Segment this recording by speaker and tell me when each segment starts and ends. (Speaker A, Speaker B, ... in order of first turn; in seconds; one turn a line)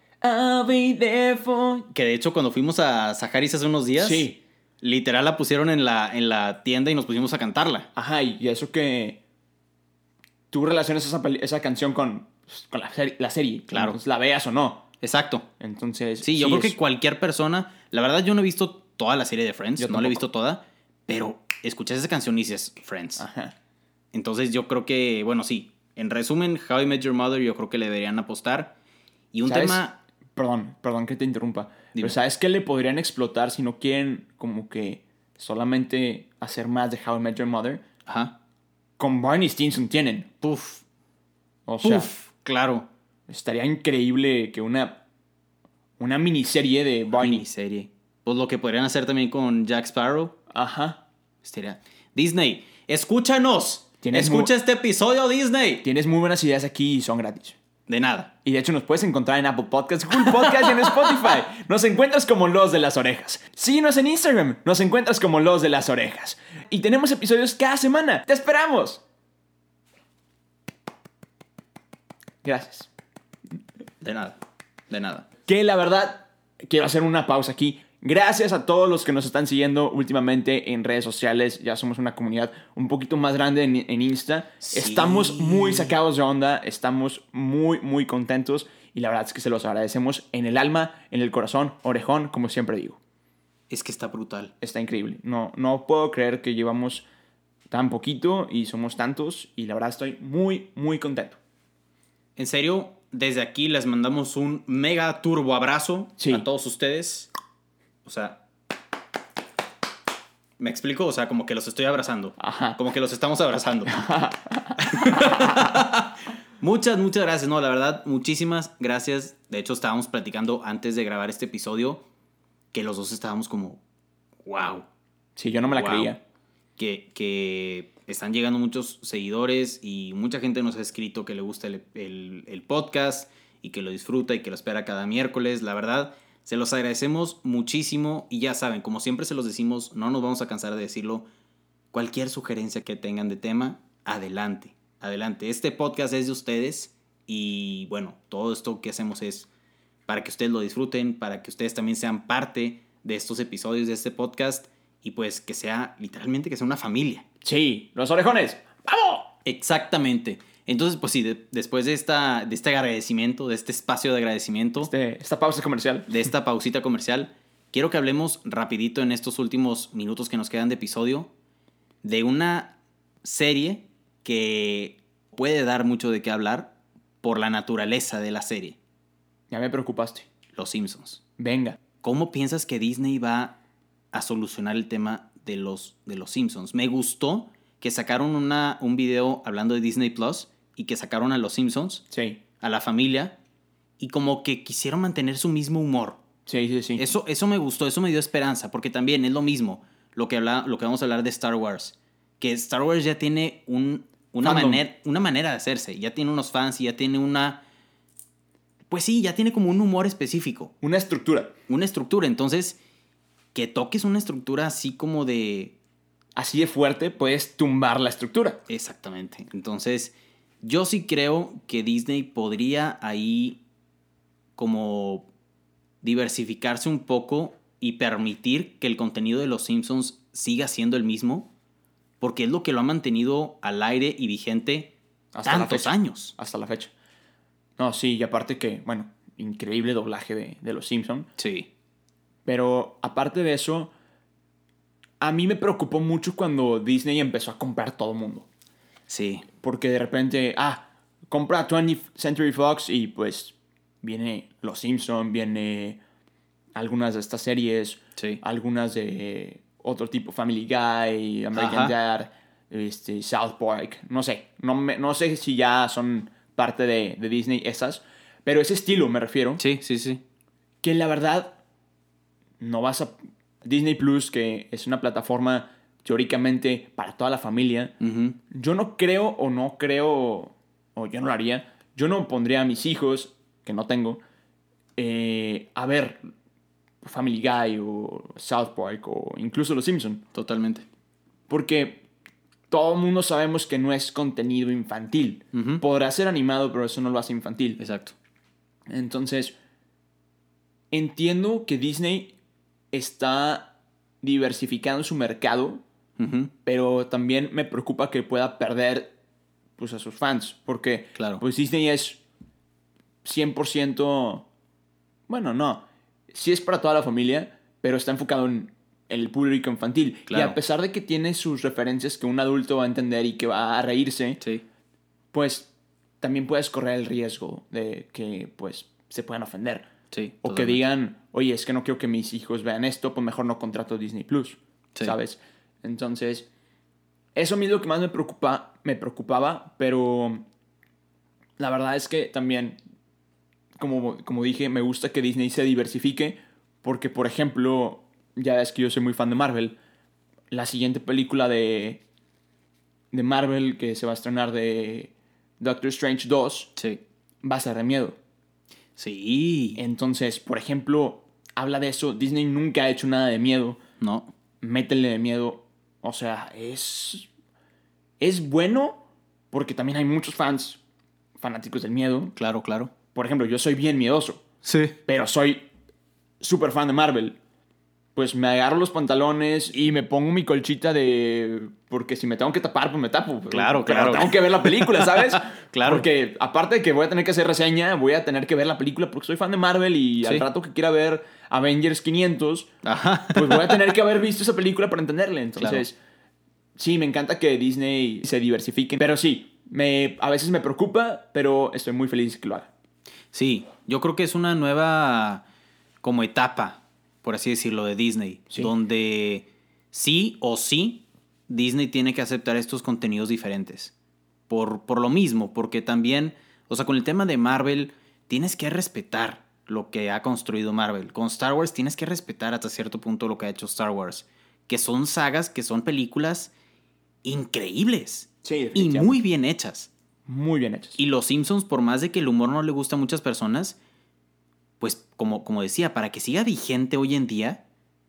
Speaker A: 0.2-1.9
Speaker B: 1.9-4.3
Speaker A: 4.0-4.4
Speaker B: 4.8-7.9
Speaker A: 7.9-9.2
Speaker A: 10.5-14.8
Speaker B: 13.7-14.0
Speaker B: 15.0-15.4
Speaker A: 15.6-16.8
Speaker B: 16.2-23.2
Speaker A: 19.8-20.2
Speaker A: 23.2-23.5
Speaker B: 24.1-28.7
Speaker B: 29.3-30.0
Speaker A: 29.4-29.8
Speaker A: 30.4-37.8
Speaker B: 38.0-38.4
Speaker A: 39.0-40.3
Speaker B: 40.4-40.8
Speaker A: 41.7-42.1
Speaker B: 41.8-42.9
Speaker A: 43.3-45.0
Speaker A: 46.0-47.4
Speaker B: 47.1-50.4
Speaker A: 50.5-51.0
Speaker B: 51.4-55.8
Speaker A: 54.0-54.5
Speaker A: 55.8-57.6
Speaker B: 57.9-58.3
Speaker A: 58.4-69.0
Speaker B: 60.1-61.3
Speaker A: 72.4-72.9
Speaker B: 74.0-74.4
Speaker B: 74.9-75.2
Speaker A: 75.5-93.0
Speaker B: 84.6-85.9
Speaker B: 93.7-94.5
Speaker A: 94.6-97.0
Speaker A: 97.7-101.4
Speaker B: 102.3-107.3
Speaker A: 106.2-106.4
Speaker B: 108.0-108.4
Speaker B: 110.6-114.0
Speaker A: 112.4-112.8
Speaker A: 113.9-115.8
Speaker B: 114.8-122.0
Speaker B: 122.7-123.8
Speaker B: 124.4-124.9
Speaker A: 125.3-126.2
Speaker B: 125.6-126.1
Speaker B: 126.8-141.3
Speaker B: 141.9-149.5
Speaker B: 150.1-157.2
Speaker A: 157.4-159.3
Speaker B: 159.4-164.9
Speaker A: 164.8-166.1
Speaker B: 166.1-171.3
Speaker B: 172.0-178.8
Speaker A: 179.5-180.2
Speaker B: 180.5-181.2
Speaker A: 181.4-181.8
Speaker B: 182.0-183.6
Speaker B: 184.1-192.0
Speaker A: 192.1-192.4
Speaker B: 192.6-193.3
Speaker B: 194.0-196.2
Speaker A: 196.4-197.0
Speaker B: 197.0-207.6
Speaker A: 204.4-204.8
Speaker B: 208.9-210.7
Speaker A: 210.8-211.5
Speaker B: 211.7-212.8
Speaker B: 213.5-215.7
Speaker A: 216.3-218.6
Speaker B: 218.7-223.6
Speaker B: 224.6-225.3
Speaker B: 226.0-231.5
Speaker B: 232.2-234.9
Speaker A: 235.3-236.9
Speaker B: 235.4-236.3
Speaker A: 237.8-241.3
Speaker B: 241.4-241.7
Speaker A: 242.4-243.9
Speaker A: 245.2-248.5
Speaker B: 249.1-249.4
Speaker A: 249.6-256.0
Speaker A: 256.8-269.6
Speaker B: 261.5-261.9
Speaker B: 269.6-270.2
Speaker A: 270.8-271.6
Speaker A: 272.6-277.9
Speaker B: 278.0-278.4
Speaker A: 278.5-284.2
Speaker A: 285.0-286.2
Speaker A: 287.0-290.2
Speaker B: 290.3-290.9
Speaker A: 291.5-292.0
Speaker A: 292.7-297.8
Speaker B: 295.5-295.8
Speaker B: 297.8-298.1
Speaker A: 298.9-299.5
Speaker A: 300.9-302.3
Speaker A: 302.9-305.8
Speaker B: 306.2-306.5
Speaker A: 306.6-309.1
Speaker A: 309.8-312.2
Speaker B: 311.1-311.4
Speaker A: 313.2-314.5
Speaker A: 315.3-324.4
Speaker B: 320.3-320.6
Speaker A: 325.3-325.7
Speaker A: 326.2-329.9
Speaker B: 330.1-330.8
Speaker A: 330.4-336.5
Speaker A: 337.4-340.4
Speaker A: 341.6-342.8
Speaker A: 343.8-349.8
Speaker A: 350.5-352.0
Speaker A: 353.1-356.7
Speaker B: 356.8-357.0
Speaker A: 357.4-358.2
Speaker B: 358.9-359.8
Speaker A: 359.8-363.8
Speaker B: 364.0-364.3
Speaker A: 364.6-367.3
Speaker A: 368.2-370.8
Speaker A: 371.4-372.4
Speaker B: 372.4-372.9
Speaker A: 373.1-374.4
Speaker B: 374.6-374.9
Speaker A: 375.1-375.7
Speaker A: 376.4-377.4
Speaker A: 378.1-392.7
Speaker B: 383.5-386.1
Speaker B: 390.2-390.5
Speaker B: 392.8-393.9
Speaker A: 393.3-395.9
Speaker B: 395.6-395.8
Speaker A: 396.8-402.7
Speaker B: 403.3-405.4
Speaker B: 406.0-413.9
Speaker B: 414.5-426.5
Speaker B: 427.2-429.9
Speaker A: 428.4-429.2
Speaker A: 430.3-431.0
Speaker B: 431.0-433.8
Speaker B: 434.8-437.6